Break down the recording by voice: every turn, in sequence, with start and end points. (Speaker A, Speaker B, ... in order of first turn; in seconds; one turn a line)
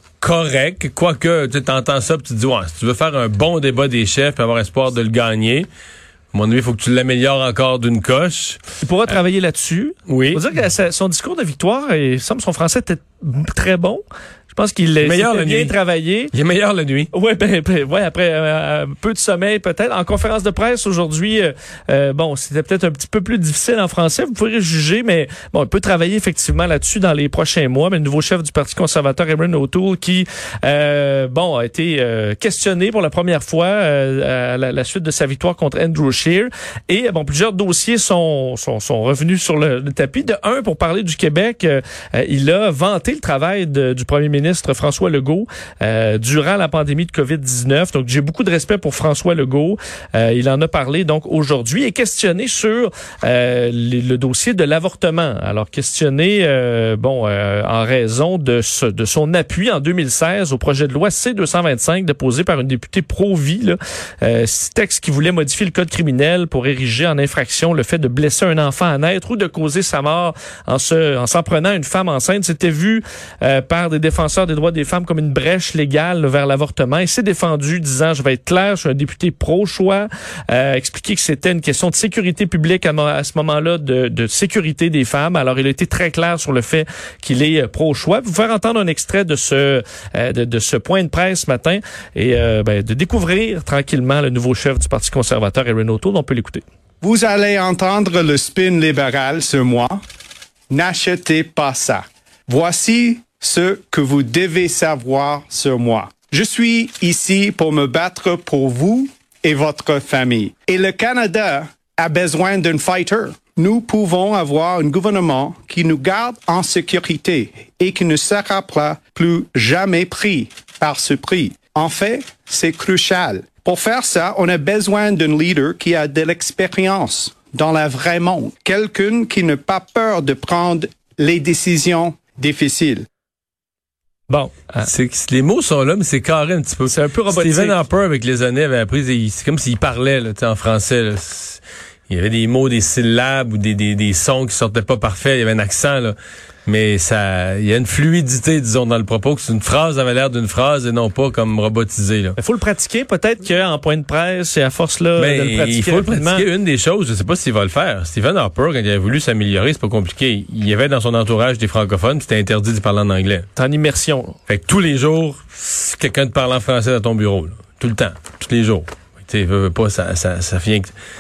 Speaker A: 0.2-5.7
Speaker A: 6.3-8.6
Speaker B: 8.8-16.3
Speaker A: 10.1-10.4
Speaker A: 15.0-15.7
Speaker A: 16.3-17.1
Speaker B: 17.1-96.6
Speaker C: 97.0-100.0
Speaker C: 100.7-133.1
Speaker B: 134.3-134.9
Speaker A: 134.8-152.4
Speaker B: 136.9-137.8
Speaker B: 152.4-156.4
Speaker A: 155.2-163.5
Speaker B: 163.6-164.3
Speaker A: 164.5-170.9